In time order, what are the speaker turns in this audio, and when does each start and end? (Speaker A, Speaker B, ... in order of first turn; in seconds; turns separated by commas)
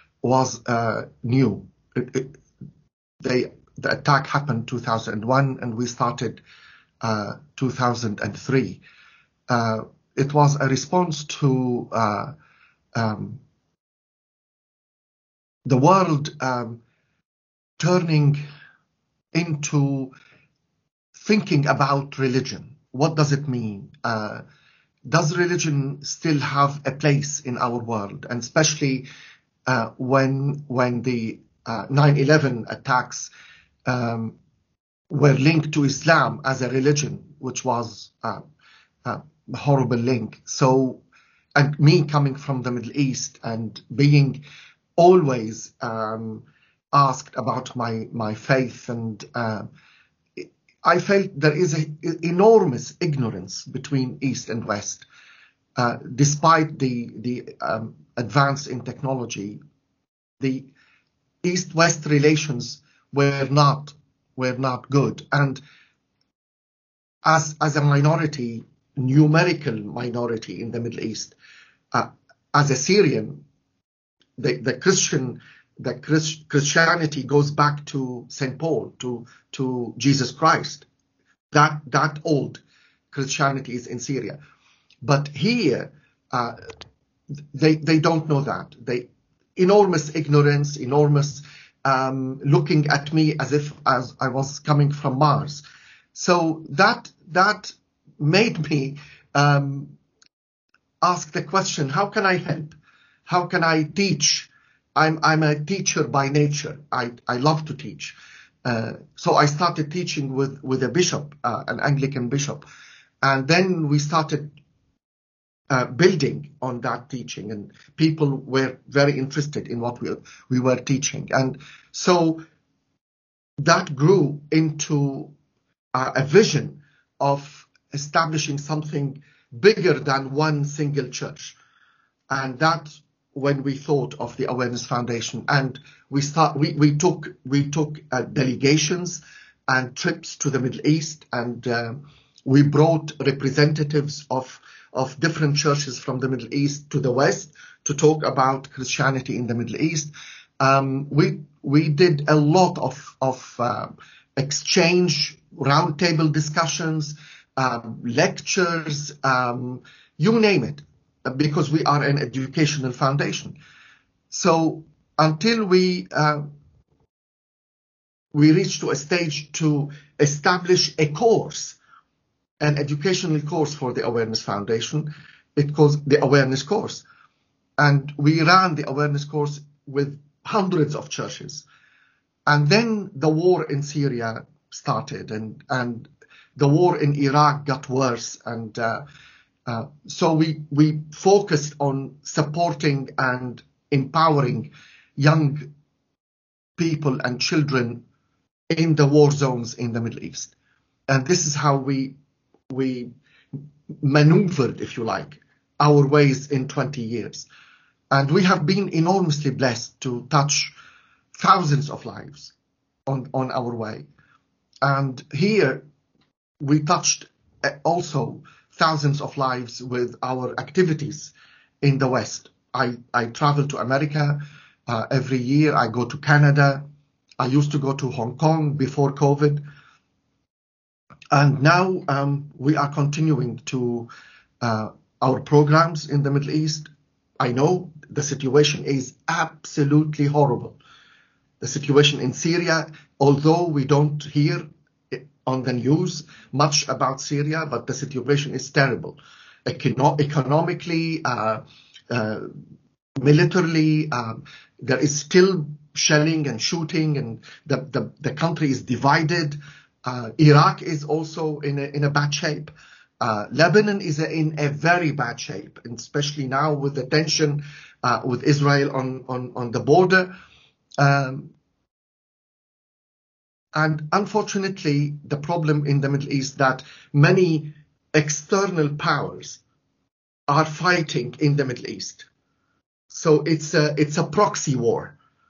Speaker A: 0.2-2.3, Speaker A: 3.2-6.4, Speaker A: 7.0-8.8, Speaker A: 9.5-12.3, Speaker A: 12.9-13.4, Speaker A: 15.7-16.8, Speaker A: 17.8-18.4, Speaker A: 19.3-20.1, Speaker A: 21.1-24.4, Speaker A: 25.1-29.1, Speaker A: 29.6-33.3, Speaker A: 33.9-34.4, Speaker A: 35.1-38.4, Speaker A: 39.0-41.0, Speaker A: 41.5-44.4, Speaker A: 45.0-49.7, Speaker A: 50.4-55.0, Speaker A: 55.8-59.6, Speaker A: 60.4-60.7, Speaker A: 61.4-65.6, Speaker A: 67.2-71.3, Speaker A: 71.9-73.4, Speaker A: 74.4-80.9, Speaker A: 81.5-84.4, Speaker A: 85.0-86.7, Speaker A: 87.5-99.9, Speaker A: 101.0-112.7, Speaker A: 113.2-114.5, Speaker A: 115.7-122.4, Speaker A: 123.6-125.3, Speaker A: 125.9-131.6, Speaker A: 132.3-163.6, Speaker A: 164.3-166.4, Speaker A: 168.3-171.8, Speaker A: 172.6-177.0, Speaker A: 177.8-181.7, Speaker A: 182.4-189.1, Speaker A: 189.7-195.7, Speaker A: 196.8-198.0, Speaker A: 198.7-200.5, Speaker A: 201.1-202.2, Speaker A: 202.7-203.1, Speaker A: 204.0-207.5, Speaker A: 208.1-210.7, Speaker A: 211.3-212.5, Speaker A: 213.1-214.1, Speaker A: 214.8-215.8, Speaker A: 216.6-226.8, Speaker A: 227.4-229.6, Speaker A: 231.3-234.1, Speaker A: 234.6-240.8, Speaker A: 241.6-252.5, Speaker A: 253.2-270.3, Speaker A: 271.0-271.5, Speaker A: 273.7-279.6, Speaker A: 280.5-282.3, Speaker A: 283.1-285.1